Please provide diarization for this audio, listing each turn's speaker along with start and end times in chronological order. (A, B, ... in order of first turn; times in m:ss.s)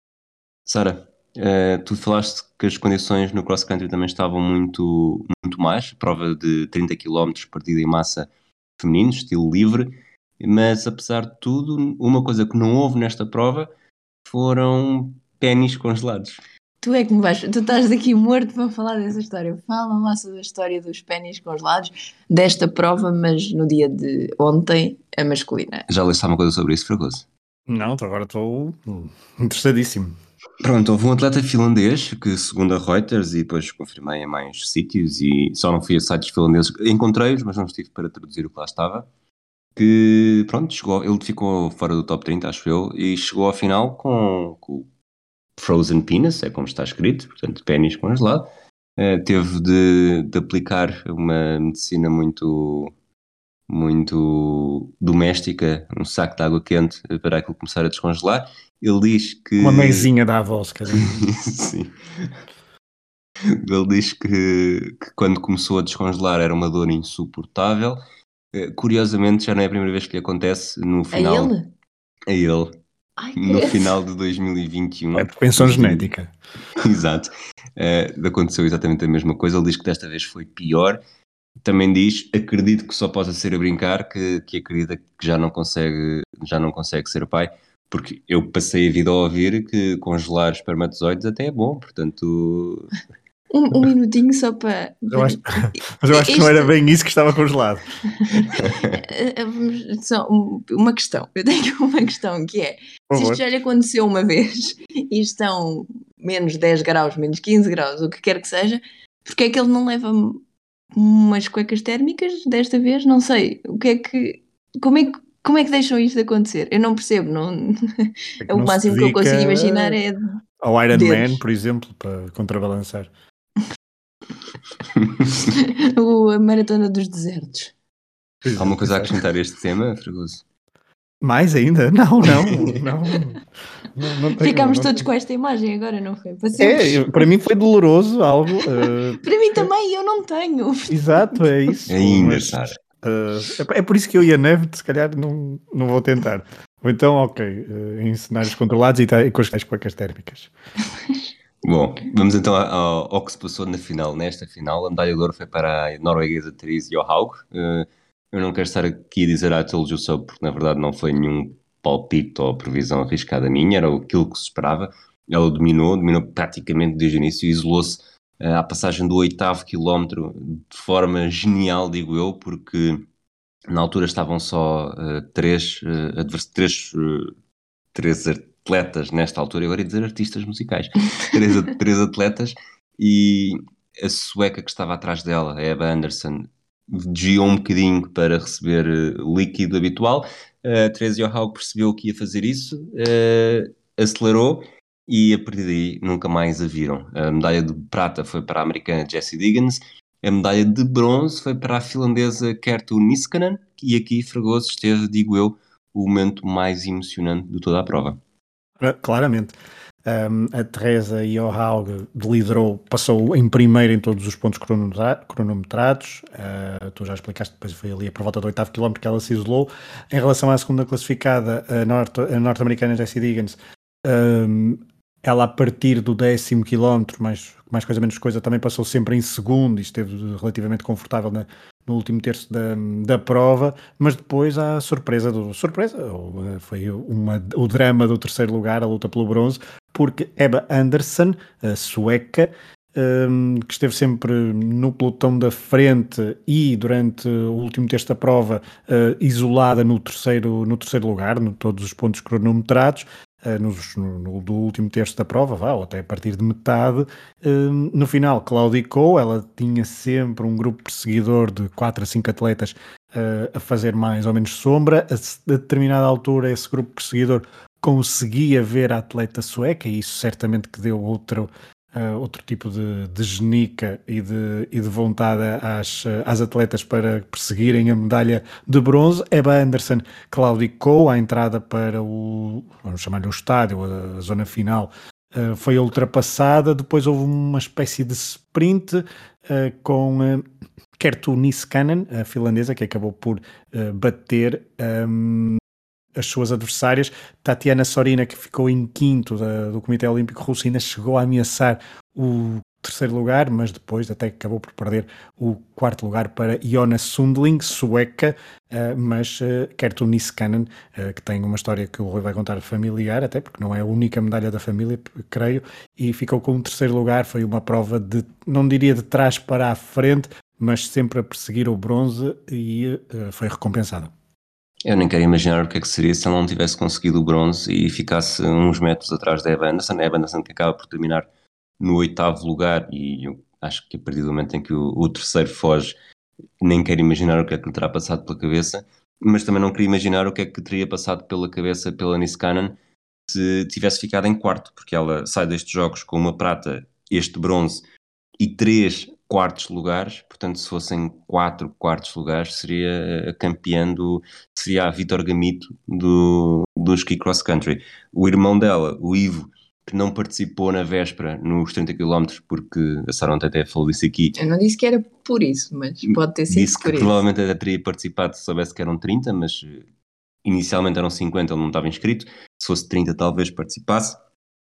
0:00.6-0:13.7 A
0:14.2-0:16.4 A
0:16.8-0:25.8 B
0:25.9-0:27.2 A
0:27.7-0:30.1 C
0:30.6-0:39.0 A
0:39.8-0:44.9 A
0:45.6-0:52.9 A
0:53.7-1:00.1 A
0:59.6-1:01.2 C
1:00.9-1:02.3 A
1:03.5-1:08.0 A
1:08.5-1:11.5 A
1:11.1-1:11.7 B
1:12.3-1:12.8 A
1:13.2-1:13.9 B
1:13.3-1:16.1 A
1:15.2-1:16.3 C
1:16.8-1:21.0 A
1:21.6-1:32.9 A
1:33.5-1:36.7 B
1:35.1-1:37.8 C
1:38.2-1:50.4 B
1:38.6-1:38.9 A
1:43.1-1:43.4 C
1:50.9-2:00.4 B
1:58.4-2:00.0 C
2:00.6-2:03.1 C
2:00.9-2:01.4 B
2:04.9-2:05.5 A
2:05.5-2:07.7 B
2:08.4-2:09.2 C
2:08.6-2:10.4 A
2:11.2-2:13.4 C
2:13.9-2:15.0 C
2:14.4-2:17.2 B
2:16.6-2:19.6 C
2:18.6-2:21.5 B
2:20.9-2:30.5 C
2:21.9-2:22.8 A
2:31.6-2:53.0 A
2:53.7-2:57.3 A
2:57.9-3:28.2 A
3:28.8-3:29.5 C
3:30.0-4:50.4 C
4:51.0-4:55.6 C
4:56.2-5:24.1 C
5:24.8-5:31.3 A
5:31.8-5:36.0 A
5:36.6-5:47.8 A
5:48.4-6:04.4 A
6:04.4-6:07.2 B
6:06.0-6:09.8 A
6:10.4-6:14.2 A